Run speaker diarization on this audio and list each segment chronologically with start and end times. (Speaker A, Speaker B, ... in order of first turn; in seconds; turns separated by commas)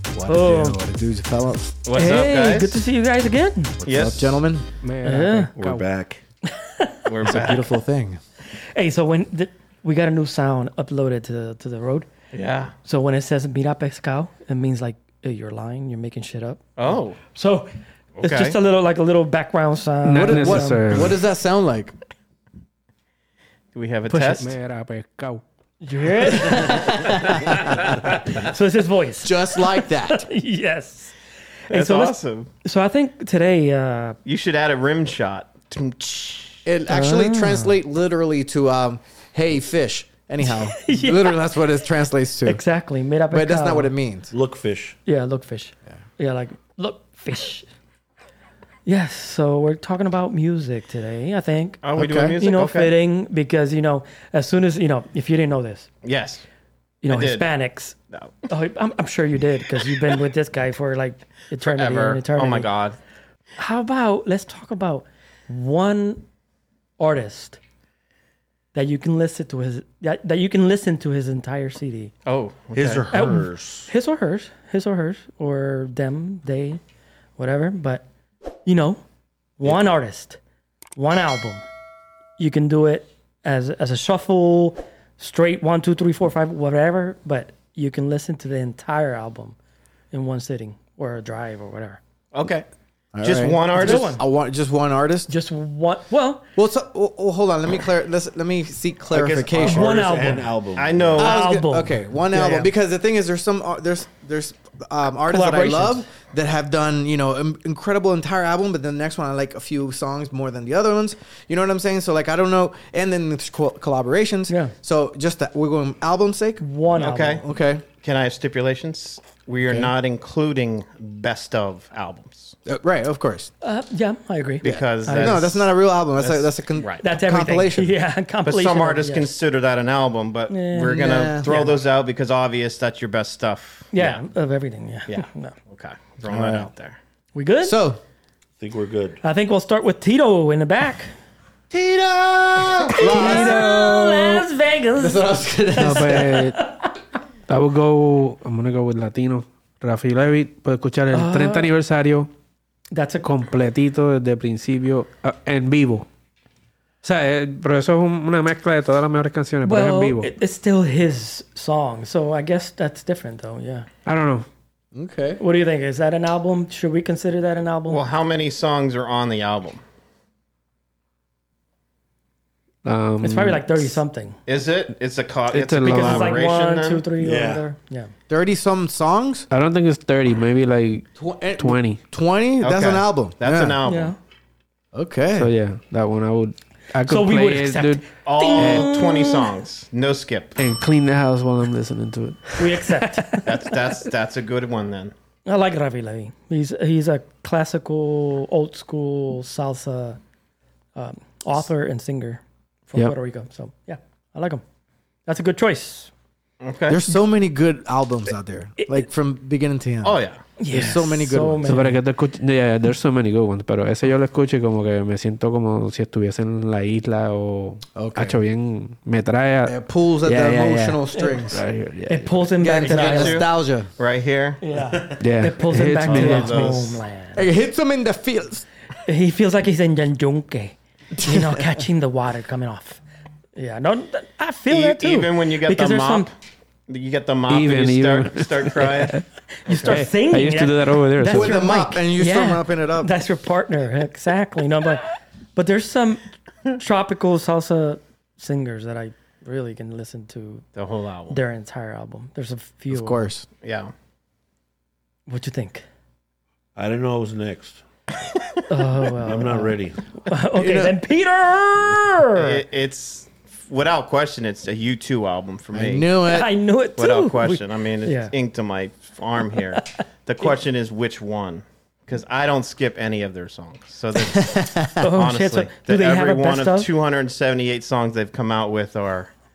Speaker A: 0.1-1.8, Speaker B: 0.2-0.8, Speaker C: 1.9-2.9, Speaker B: 1.9-3.8, Speaker A: 3.8-4.7, Speaker C: 3.9-4.4, Speaker D: 4.8-5.8, Speaker B: 5.0-5.5, Speaker E: 5.6-6.2, Speaker B: 6.5-7.5, Speaker C: 7.1-7.7, Speaker A: 7.2-8.2, Speaker B: 8.8-12.1, Speaker C: 12.3-12.7, Speaker B: 12.8-16.6, Speaker C: 16.8-17.2, Speaker B: 17.3-21.1, Speaker C: 18.2-18.6, Speaker D: 20.1-21.1, Speaker A: 20.1-21.9, Speaker C: 23.7-24.6, Speaker D: 24.1-25.4, Speaker B: 25.8-31.1, Speaker A: 26.6-27.1, Speaker A: 29.2-30.2, Speaker C: 31.7-32.5, Speaker B: 31.7-34.2, Speaker C: 34.2-36.6, Speaker A: 36.6-42.6, Speaker B: 36.9-37.8, Speaker B: 40.5-41.4, Speaker B: 42.5-43.9, Speaker A: 43.3-44.3, Speaker E: 44.3-45.0, Speaker B: 45.1-47.7, Speaker B: 48.9-51.8, Speaker C: 51.8-52.9, Speaker A: 52.0-52.4, Speaker B: 52.4-55.9, Speaker C: 56.0-56.4, Speaker B: 57.0-58.0, Speaker C: 57.1-57.5, Speaker B: 58.5-62.7, Speaker C: 61.6-63.0, Speaker B: 63.6-66.2, Speaker B: 67.0-67.6, Speaker B: 68.7-72.1, Speaker C: 72.3-73.0, Speaker E: 72.8-73.9, Speaker B: 73.1-76.8, Speaker B: 77.4-78.0, Speaker B: 78.7-79.0, Speaker B: 79.6-80.4, Speaker B: 81.0-81.6, Speaker B: 82.4-89.6, Speaker B: 90.1-92.0, Speaker C: 92.3-92.7, Speaker A: 93.1-95.3, Speaker C: 93.2-94.1, Speaker B: 93.7-94.2, Speaker B: 95.3-96.4, Speaker A: 96.6-99.9, Speaker E: 99.2-101.2, Speaker B: 99.6-100.5, Speaker C: 100.8-101.3, Speaker A: 101.2-116.7, Speaker B: 101.2-102.7, Speaker B: 105.3-106.0, Speaker B: 116.6-117.4, Speaker C: 117.0-117.5, Speaker A: 117.2-117.8, Speaker C: 118.0-122.6, Speaker A: 122.7-123.5, Speaker B: 123.6-125.4, Speaker C: 124.6-127.0, Speaker A: 124.6-128.0, Speaker B: 127.0-129.3, Speaker C: 128.4-134.2, Speaker B: 130.5-131.8, Speaker A: 130.8-131.6, Speaker B: 133.9-135.6, Speaker C: 135.1-137.0, Speaker A: 136.2-136.7, Speaker B: 137.3-137.8, Speaker A: 137.6-138.0, Speaker E: 138.6-139.2, Speaker B: 139.2-141.1, Speaker A: 141.7-144.5, Speaker B: 142.9-146.9, Speaker A: 145.0-146.3, Speaker D: 145.8-146.6, Speaker D: 147.5-152.3, Speaker B: 151.1-151.7, Speaker B: 152.9-153.3, Speaker D: 153.2-156.1, Speaker D: 157.0-160.3, Speaker B: 159.6-163.9, Speaker D: 164.1-164.5, Speaker A: 164.9-165.4, Speaker B: 165.4-168.0, Speaker C: 167.9-169.8, Speaker D: 172.8-174.0, Speaker B: 173.2-174.4, Speaker C: 174.5-177.0, Speaker D: 175.5-176.4, Speaker B: 175.8-178.1, Speaker E: 177.2-177.6, Speaker A: 178.3-179.5, Speaker D: 179.5-182.0, Speaker A: 181.2-183.8, Speaker C: 182.6-184.2, Speaker B: 183.9-184.2, Speaker A: 184.9-185.5, Speaker D: 185.3-188.9, Speaker B: 187.1-189.5, Speaker C: 188.2-190.6, Speaker D: 190.6-193.4, Speaker B: 192.6-193.6, Speaker C: 193.4-195.1, Speaker B: 195.5-200.2, Speaker B: 200.9-204.6, Speaker B: 205.3-206.1, Speaker C: 206.6-207.0, Speaker A: 206.9-210.2, Speaker C: 210.0-210.4, Speaker B: 210.6-212.0, Speaker A: 210.7-211.8, Speaker D: 211.7-222.5, Speaker A: 217.9-218.4, Speaker A: 219.7-221.6, Speaker B: 221.1-221.4, Speaker B: 222.1-223.4, Speaker A: 222.6-223.9, Speaker C: 222.8-224.6, Speaker B: 224.6-227.4, Speaker D: 225.2-226.7, Speaker C: 226.1-227.0, Speaker A: 227.3-228.7, Speaker B: 229.1-233.0, Speaker A: 231.2-231.7, Speaker B: 233.6-236.3, Speaker C: 234.7-236.3, Speaker C: 236.9-240.1, Speaker D: 237.5-239.2, Speaker B: 239.6-250.7, Speaker D: 239.8-241.6, Speaker A: 241.3-243.1, Speaker C: 250.8-251.4, Speaker B: 251.3-253.3, Speaker A: 252.9-253.5, Speaker C: 253.6-253.9, Speaker B: 255.3-255.8, Speaker E: 256.8-257.8, Speaker C: 258.2-258.6, Speaker B: 258.7-262.6, Speaker E: 259.2-260.0, Speaker A: 260.5-261.0, Speaker C: 262.4-266.1, Speaker A: 265.7-266.5, Speaker B: 266.3-268.3, Speaker C: 267.0-279.3, Speaker A: 274.4-275.0, Speaker B: 275.0-276.9